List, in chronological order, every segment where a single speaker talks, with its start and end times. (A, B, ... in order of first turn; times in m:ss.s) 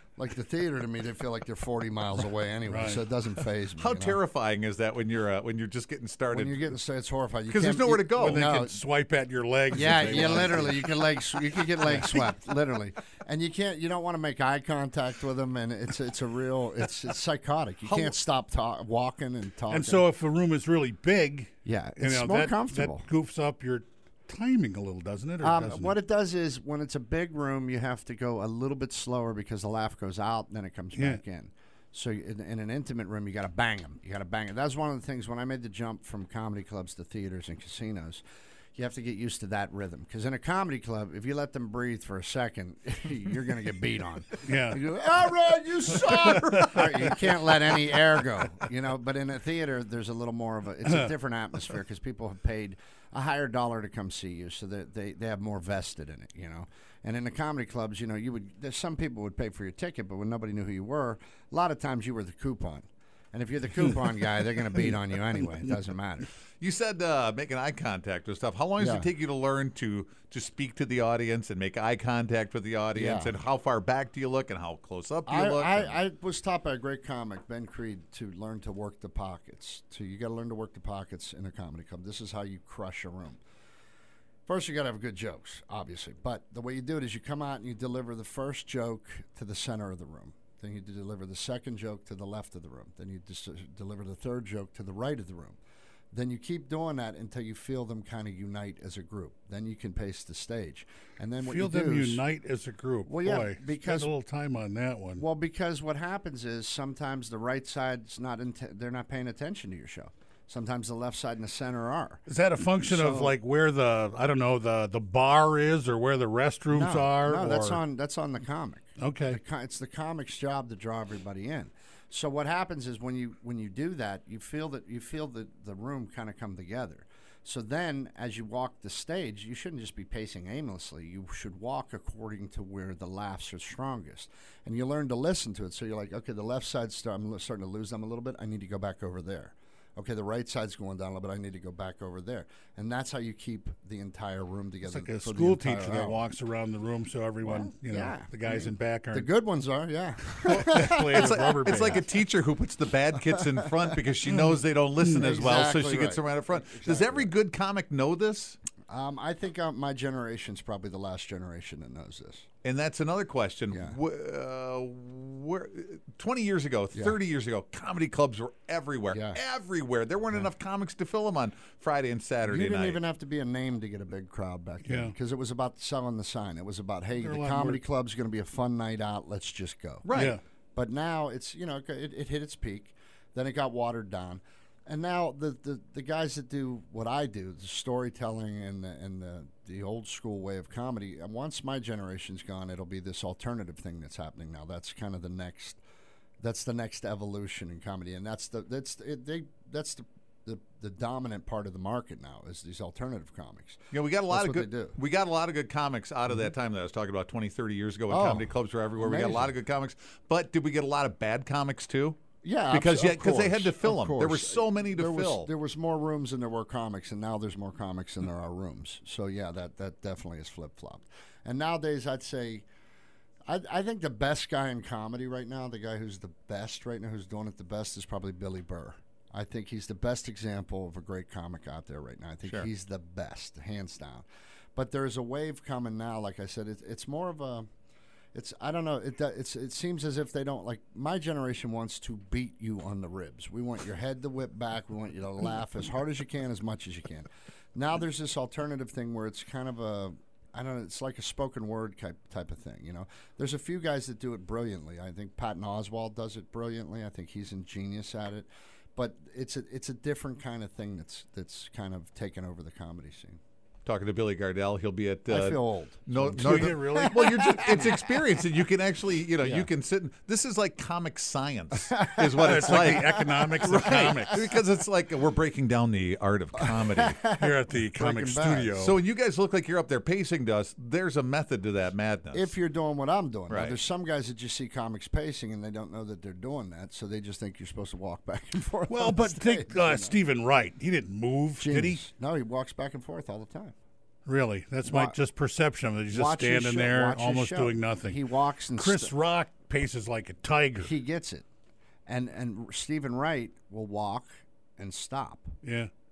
0:00.2-0:04.2 A
0:02.7-0:03.1 B
0:03.8-0:06.7 C
0:06.3-0:08.8 A
0:07.5-0:08.4 C
0:08.2-0:10.9 B
0:09.7-0:20.0 A
0:11.7-0:12.4 B
0:17.8-0:18.2 C
0:19.7-0:25.9 B
0:21.6-0:23.1 A
0:25.4-0:38.2 A
0:31.0-0:31.2 B
0:38.7-1:06.3 A
0:44.4-0:44.8 B
1:06.6-1:16.0 C
1:08.8-1:09.1 A
1:12.9-1:13.3 A
1:15.2-1:23.4 A
1:24.4-1:35.6 A
1:36.1-1:42.2 A
1:41.4-1:45.2 B
1:43.0-1:44.1 A
1:45.2-1:52.2 A
1:52.3-1:57.8 B
1:52.8-1:53.4 A
1:56.7-2:26.2 A
1:59.0-1:59.4 B
2:24.8-2:29.3 B
2:27.4-2:32.0 A
2:30.3-2:32.2 B
2:30.6-2:38.6 C
2:34.3-2:35.4 B
2:35.1-2:37.3 A
2:38.9-2:42.4 A
2:42.6-2:53.0 C
2:43.7-2:44.0 A
2:49.1-2:49.4 A
2:52.4-3:00.2 A
2:54.8-2:55.1 B
2:57.1-2:57.8 B
3:00.0-3:00.4 C
3:00.1-3:00.4 B
3:00.7-3:15.8 A
3:16.4-3:25.0 A
3:23.9-3:32.2 C
3:28.1-3:29.5 A
3:32.4-3:42.6 A
3:32.7-3:35.5 C
3:43.5-3:57.7 A
3:58.3-4:23.4 A
4:23.8-4:37.2 C
4:25.3-4:28.0 A
4:26.4-4:27.7 B
4:29.4-4:29.7 A
4:32.1-4:33.8 A
4:32.4-4:34.5 B
4:36.6-4:38.8 A
4:37.4-4:39.0 B
4:38.8-4:42.5 C
4:42.3-4:50.2 A
4:43.5-4:43.8 C
4:48.9-4:52.0 B
4:51.6-4:53.7 A
4:54.2-5:00.9 B
4:54.8-4:55.2 A
4:56.1-4:59.1 A
5:00.8-5:01.4 A
5:02.1-5:05.6 A
5:05.6-5:05.9 B